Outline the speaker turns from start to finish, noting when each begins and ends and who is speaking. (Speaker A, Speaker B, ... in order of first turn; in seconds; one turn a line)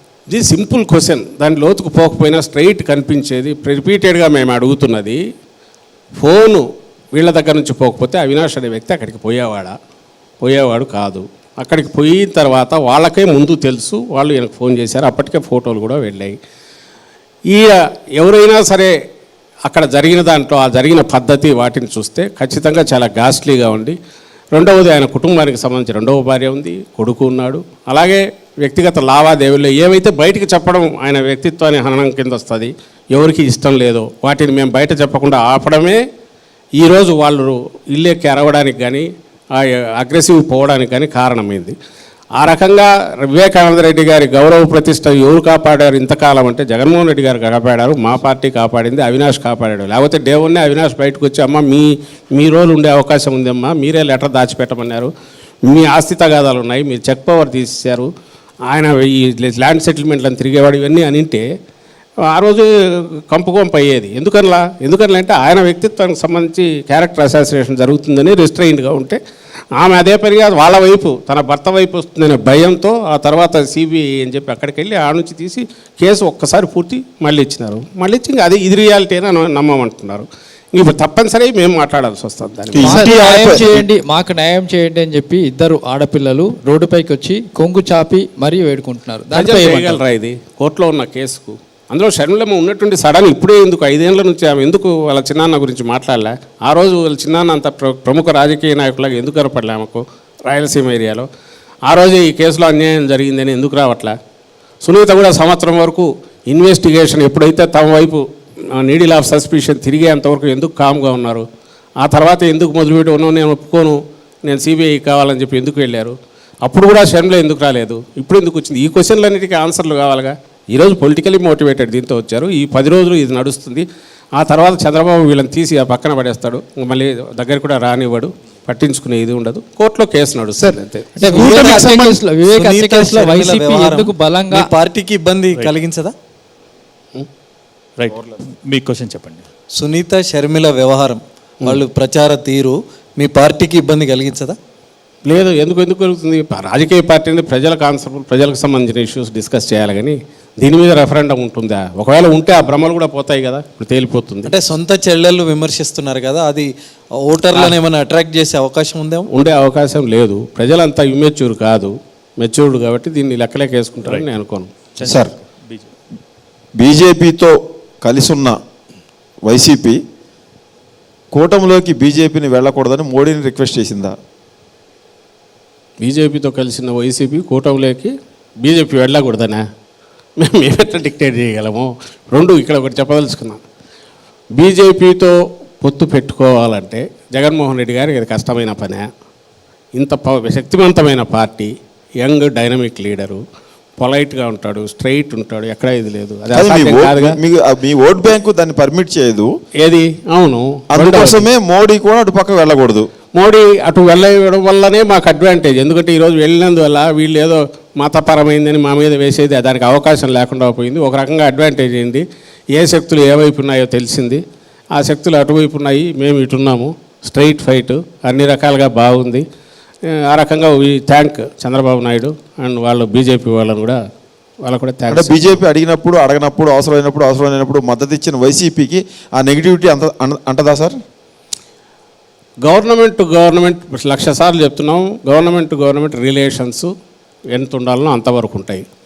Speaker A: 0.3-5.2
Speaker A: 6.2-9.7
Speaker A: 10.4-16.3
Speaker A: 17.5-18.9
Speaker A: 19.7-24.0
Speaker A: 24.5-36.0
Speaker A: 36.8-41.7
Speaker A: 42.4-55.1
Speaker A: 55.7-58.1
Speaker A: 58.7-61.5
Speaker A: 62.3-69.2
Speaker A: 69.8-83.5
Speaker B: 82.7-83.8
Speaker C: 82.8-90.0
Speaker A: 89.3-101.3
Speaker A: 101.9-104.1
Speaker A: 104.8-108.2
Speaker A: 108.8-111.5
Speaker A: 112.0-123.8
Speaker A: 124.4-131.7
Speaker C: 131.2-134.7
Speaker D: 131.2-136.1
Speaker E: 138.0-139.4
Speaker D: 139.8-144.6
Speaker A: 145.2-154.5
Speaker D: 154.4-156.7
Speaker D: 157.2-159.3
Speaker A: 159.3-164.7
Speaker E: 165.0-165.9
Speaker B: 165.0-165.3
Speaker B: 166.8-168.6
Speaker B: 169.4-170.0
Speaker B: 171.3-174.1
Speaker A: 176.0-179.6
Speaker A: 180.4-183.6
Speaker A: 184.6-189.0
Speaker A: 189.9-193.4
Speaker A: 194.0-197.4
Speaker B: 196.5-199.5
Speaker A: 199.8-201.4
Speaker B: 200.9-203.1
Speaker A: 203.3-212.2
Speaker A: 212.8-214.4
Speaker A: 214.9-219.4
Speaker A: 220.1-224.0
Speaker A: 224.6-225.6
Speaker B: 225.1-230.9
Speaker A: 232.6-236.9
Speaker A: 237.5-238.8